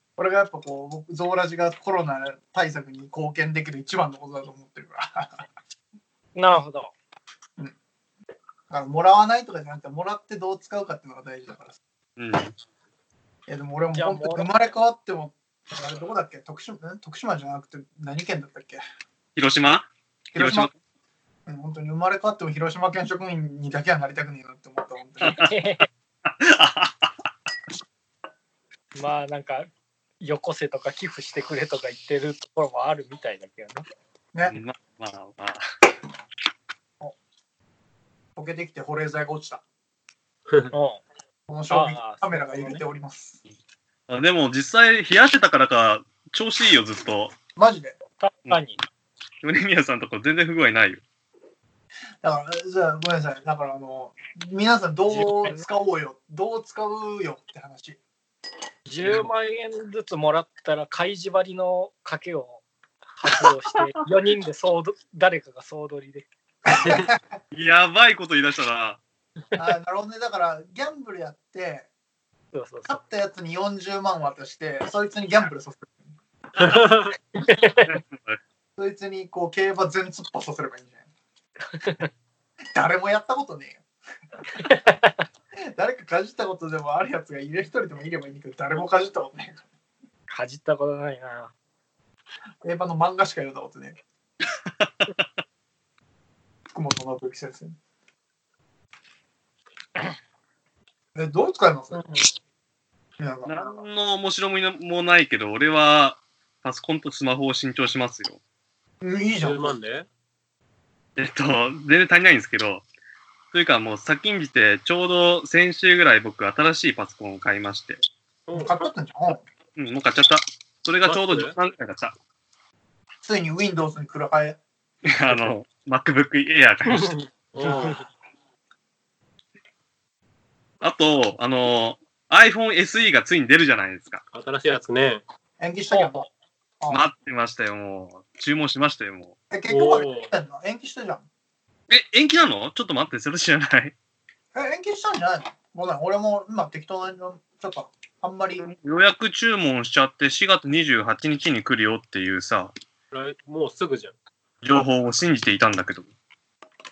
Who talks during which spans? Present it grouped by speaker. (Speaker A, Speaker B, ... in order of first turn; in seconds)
Speaker A: 0.2-5.4, 8.7-11.8, 13.5-18.8, 20.3-20.7, 21.4-25.4, 34.3-34.6, 38.4-39.6, 41.5-43.4, 47.5-48.0, 52.2-58.0, 66.7-66.9, 69.5-71.9, 72.9-76.1, 78.8-81.0, 82.7-83.8, 85.7-89.6, 92.6-94.0, 96.7-97.8, 101.1-102.0, 103.2-103.8, 109.0-109.7, 118.5-119.4, 123.2-124.6, 127.6-127.9, 135.6-136.3, 139.5-141.2, 144.5-148.6
Speaker B: 6.3-6.9, 13.9-14.5, 25.2-25.9, 28.9-29.7, 30.2-33.8, 40.7-41.0, 41.7-42.8, 48.2-48.8, 55.1-55.6, 58.9-62.6, 63.2-66.3, 72.5-73.0, 77.4-78.0, 81.7-82.1, 84.5-85.2, 90.3-91.5, 101.9-102.3, 135.9-136.3
Speaker C: 12.2-12.5, 19.4-20.7, 26.2-27.1, 34.5-35.6, 44.1-47.3, 49.4-51.0, 67.5-69.0, 77.8-78.4, 94.8-95.2, 103.5-108.4, 111.2-112.8, 113.5-118.0, 119.8-122.1, 125.0-127.9, 130.8-134.2, 136.9-139.3, 141.9-143.9, 148.6-152.7, 154.6-156.1
Speaker D: 66.8-67.1, 76.6-77.1, 109.4-110.1, 118.5-118.9, 121.0-121.5, 125.3-125.5, 127.5-128.0, 134.3-135.2, 139.7-140.3, 153.1-154.1